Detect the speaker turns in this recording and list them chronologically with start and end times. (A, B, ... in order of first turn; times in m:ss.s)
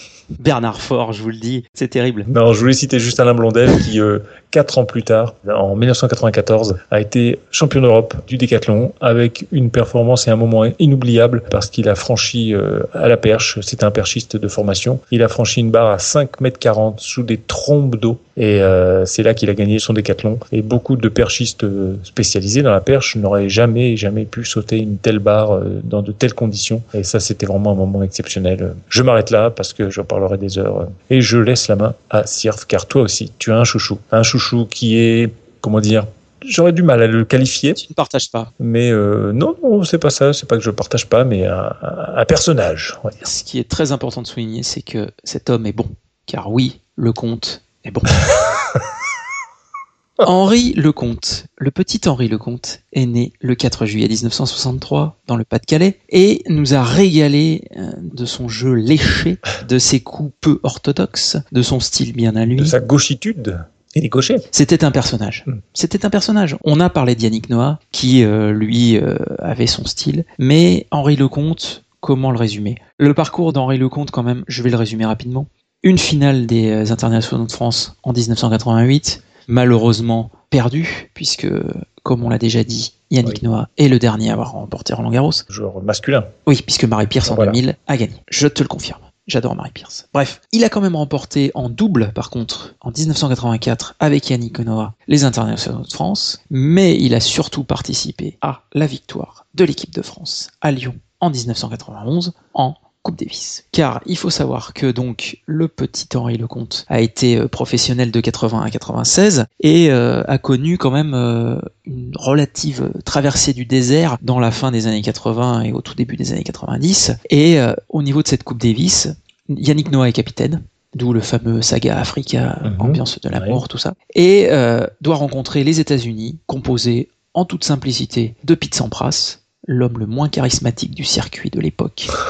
0:00.4-0:02.3 A
0:02.3-0:37.8 B
0:37.8-0:38.5 A
0:38.6-0:43.2 B
0:43.2-0:48.2 A
0:50.2-1:02.8 A
1:02.5-1:04.5 B
1:04.5-1:25.4 A
1:25.5-1:26.3 B
1:26.5-2:12.1 A
1:27.2-1:27.6 B
2:02.6-2:03.6 B